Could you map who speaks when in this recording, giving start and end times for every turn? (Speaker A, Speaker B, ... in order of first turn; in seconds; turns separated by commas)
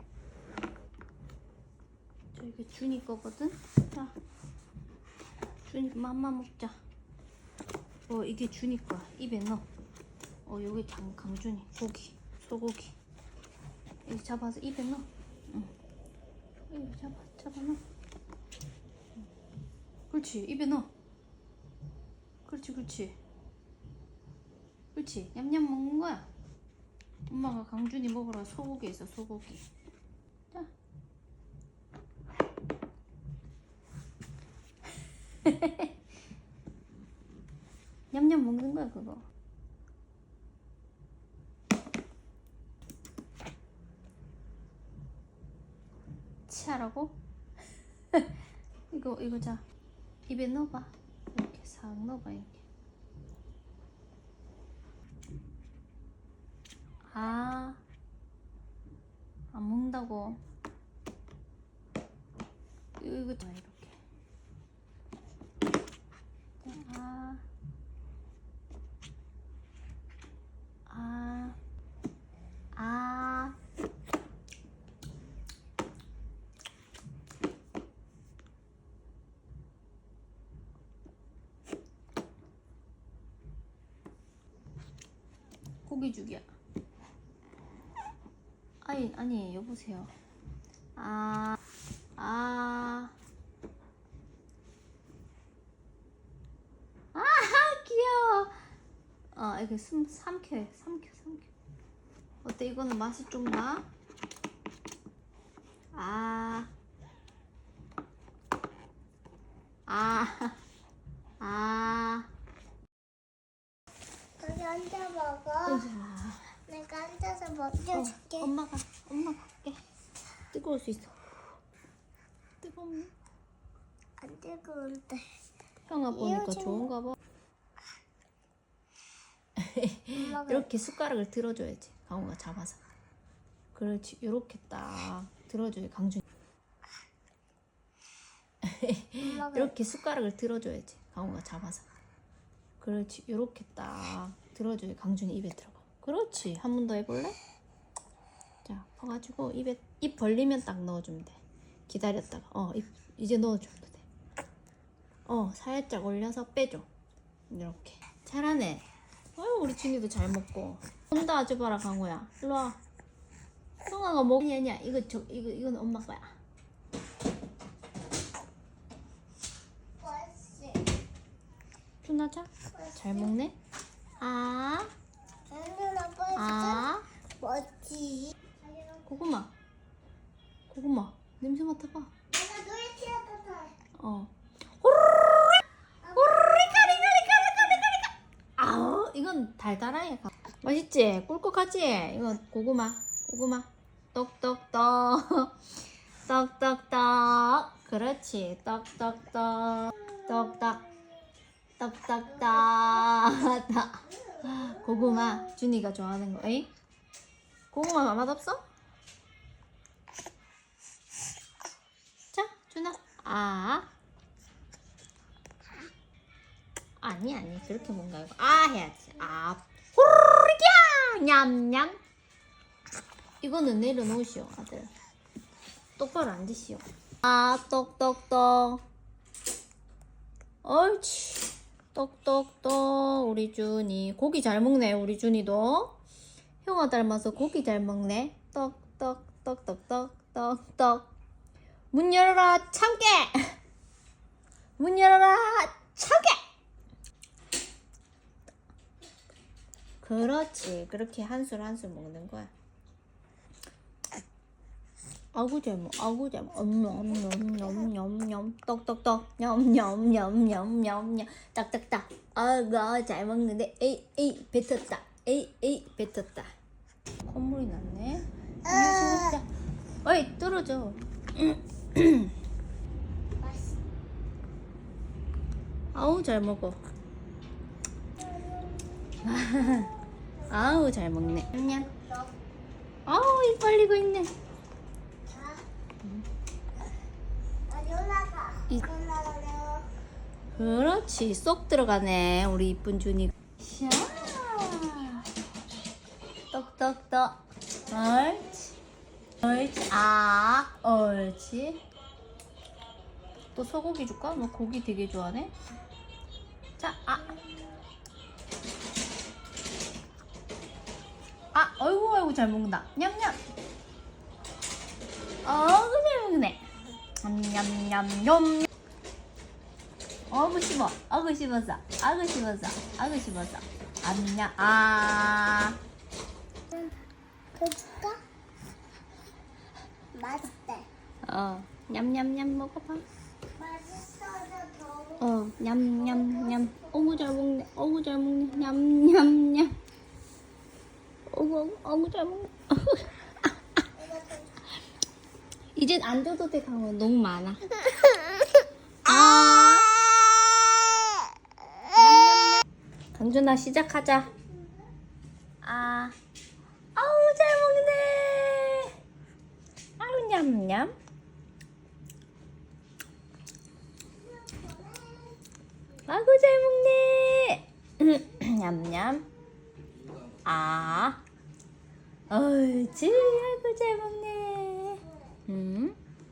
Speaker A: 2.3-4.1, Speaker A: 5.7-6.8, Speaker A: 8.1-9.7, Speaker A: 10.5-12.9, Speaker A: 14.1-15.7, Speaker A: 16.7-17.8, Speaker A: 20.1-20.9, Speaker A: 22.5-23.2, Speaker A: 24.9-26.3, Speaker A: 27.3-29.7, Speaker A: 35.4-35.9, Speaker A: 38.1-39.2, Speaker A: 46.5-47.2, Speaker A: 48.9-49.6, Speaker A: 50.3-52.6, Speaker A: 57.1-57.8, Speaker A: 59.5-60.4, Speaker A: 63.0-64.0, Speaker A: 66.6-67.4, Speaker A: 70.9-71.6, Speaker A: 72.8-73.6, Speaker A: 85.9-86.5, Speaker A: 88.8-90.1, Speaker A: 91.0-91.6, Speaker A: 92.2-93.2, Speaker A: 97.1-98.6, Speaker A: 99.3-101.5, Speaker A: 102.4-103.8, Speaker A: 105.9-106.7, Speaker A: 109.9-110.6, Speaker A: 111.4-112.3, Speaker B: 114.4-115.9, Speaker A: 115.7-116.5, Speaker B: 116.7-118.5, Speaker A: 117.9-119.8, Speaker A: 120.5-121.3, Speaker A: 122.6-123.1, Speaker B: 124.2-125.3, Speaker A: 125.9-127.2, Speaker B: 126.2-126.9, Speaker A: 129.6-132.8, Speaker B: 130.2-130.7, Speaker A: 133.7-136.2, Speaker A: 138.6-141.9, Speaker B: 139.2-139.7, Speaker A: 142.8-147.4, Speaker A: 148.7-154.1, Speaker A: 155.3-156.9, Speaker A: 157.5-162.8, Speaker A: 163.8-166.4, Speaker B: 170.0-170.9, Speaker A: 172.0-173.6, Speaker B: 172.8-173.1, Speaker A: 174.2-174.9, Speaker B: 175.5-176.9, Speaker A: 176.3-177.1, Speaker B: 177.4-179.0, Speaker A: 179.1-179.5, Speaker A: 180.7-182.1, Speaker B: 182.3-183.7, Speaker A: 184.0-195.6, Speaker B: 186.1-187.5, Speaker A: 196.2-200.9, Speaker A: 201.8-206.7, Speaker A: 207.7-208.6, Speaker A: 212.3-213.9, Speaker A: 217.0-222.0, Speaker A: 223.4-224.9, Speaker A: 226.0-228.8, Speaker A: 230.6-236.0, Speaker A: 236.6-241.1, Speaker A: 241.9-243.6, Speaker A: 244.8-246.4, Speaker A: 250.0-252.5, Speaker A: 255.3-266.5, Speaker A: 267.2-269.5, Speaker B: 269.0-269.2, Speaker A: 270.0-272.3, Speaker B: 273.4-273.8, Speaker A: 275.9-276.8, Speaker B: 278.2-279.2, Speaker A: 279.2-281.9, Speaker B: 281.9-282.3, Speaker A: 283.1-284.3, Speaker B: 285.2-285.6, Speaker B: 287.7-289.9, Speaker A: 290.5-295.3, Speaker A: 296.5-298.8, Speaker A: 299.4-301.9, Speaker A: 303.6-305.5, Speaker A: 306.8-307.4, Speaker A: 311.5-313.4, Speaker A: 315.4-316.7, Speaker A: 317.2-318.7, Speaker A: 320.3-325.8, Speaker B: 327.6-328.2, Speaker B: 330.1-330.9, Speaker A: 331.2-333.1, Speaker B: 333.6-335.3, Speaker A: 335.2-339.8, Speaker B: 336.0-337.3, Speaker A: 341.3-343.8, Speaker B: 344.0-344.7, Speaker A: 345.8-348.2, Speaker A: 349.1-350.0, Speaker A: 351.9-352.6, Speaker A: 353.1-354.3, Speaker A: 355.6-356.2, Speaker A: 356.9-359.0, Speaker A: 360.0-360.9, Speaker B: 364.1-365.4, Speaker A: 366.1-369.3, Speaker A: 370.4-371.2, Speaker A: 372.3-376.0